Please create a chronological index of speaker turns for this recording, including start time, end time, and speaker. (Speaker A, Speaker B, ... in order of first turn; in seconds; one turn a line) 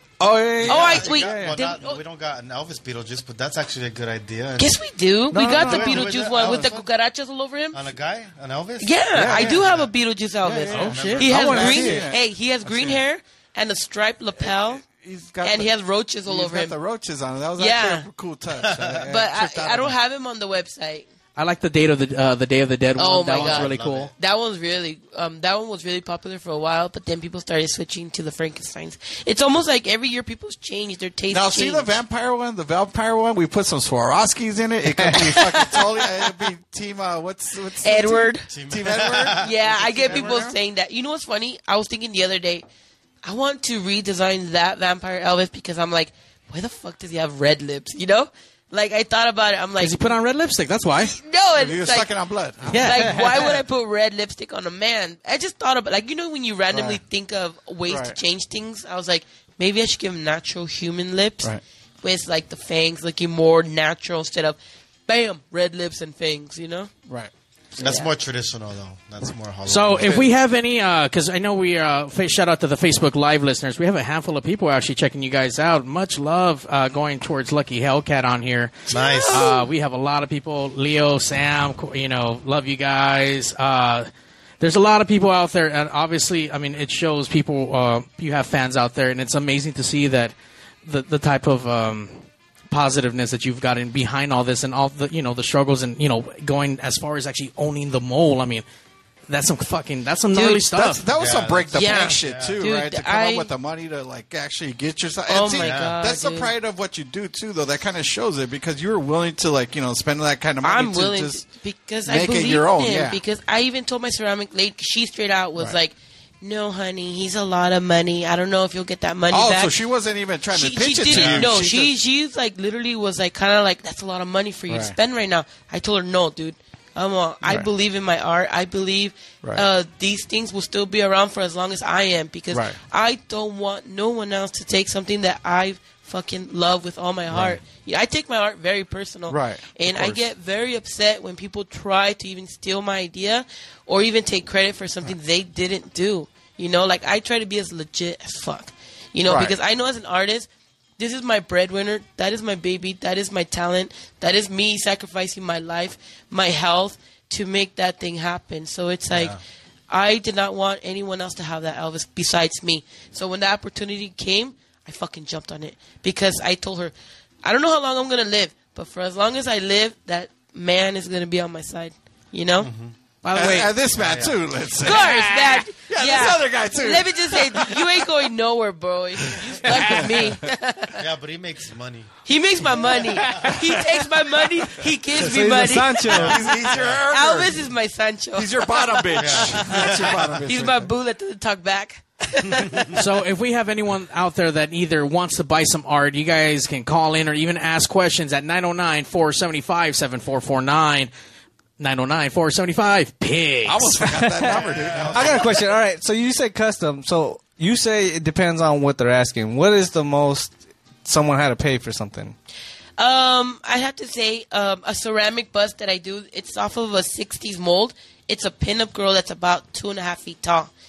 Speaker A: 0.2-1.6
Speaker B: 0.6-4.8
Speaker C: 0.6-2.0
Speaker C: 4.6-7.8
Speaker A: 5.3-6.0
Speaker B: 5.4-6.9
Speaker B: 7.7-9.9
Speaker C: 8.8-14.8
Speaker A: 9.1-9.7
Speaker A: 10.4-13.0
Speaker D: 10.7-11.5
Speaker E: 11.4-12.0
Speaker A: 14.4-15.7
Speaker C: 15.4-16.8
Speaker A: 16.3-19.9
Speaker C: 17.6-18.1
Speaker B: 18.6-19.0
Speaker C: 19.0-21.1
Speaker D: 21.4-24.1
Speaker C: 23.0-31.9
Speaker B: 23.3-24.1
Speaker A: 31.3-40.6
Speaker E: 34.9-35.4
Speaker C: 37.8-38.5
Speaker B: 38.5-40.3
Speaker C: 39.3-42.6
Speaker C: 43.2-50.1
Speaker D: 49.8-51.2
Speaker C: 51.1-52.1
Speaker A: 51.5-53.3
Speaker D: 52.7-53.5
Speaker C: 52.8-61.5
Speaker A: 56.7-57.0
Speaker A: 57.9-58.2
Speaker C: 62.0-66.9
Speaker C: 67.8-68.1
Speaker B: 67.8-70.2
Speaker D: 69.7-84.1
Speaker B: 78.9-79.5
Speaker C: 78.9-79.6
Speaker D: 84.6-90.3
Speaker D: 90.8-98.6
Speaker D: 99.3-101.0
Speaker C: 100.3-100.6
Speaker A: 100.7-111.4
Speaker B: 101.1-102.6
Speaker C: 101.7-103.5
Speaker C: 105.3-106.5
Speaker B: 105.6-106.0
Speaker C: 110.6-119.7
Speaker A: 112.0-113.2
Speaker A: 119.3-121.9
Speaker C: 120.5-150.5
Speaker A: 124.7-125.0
Speaker A: 132.5-132.8
Speaker A: 137.3-137.6
Speaker A: 139.3-140.2
Speaker A: 149.2-149.6
Speaker C: 151.0-159.4
Speaker B: 159.1-159.4
Speaker C: 159.9-172.7
Speaker B: 172.6-172.9
Speaker D: 173.2-173.7
Speaker A: 173.3-178.0
Speaker B: 173.9-174.4
Speaker C: 174.8-181.0
Speaker A: 179.2-180.3
Speaker B: 180.9-182.1
Speaker C: 182.2-186.2
Speaker A: 183.3-183.7
Speaker E: 185.2-186.4
Speaker B: 186.1-187.0
Speaker A: 186.3-187.6
Speaker C: 187.1-189.8
Speaker A: 188.3-190.9
Speaker B: 189.2-190.4
Speaker C: 190.4-192.9
Speaker B: 192.5-192.8
Speaker D: 192.9-201.1
Speaker D: 201.8-204.2
Speaker A: 203.7-205.6
Speaker B: 204.4-205.5
Speaker E: 205.1-212.4
Speaker C: 213.0-220.7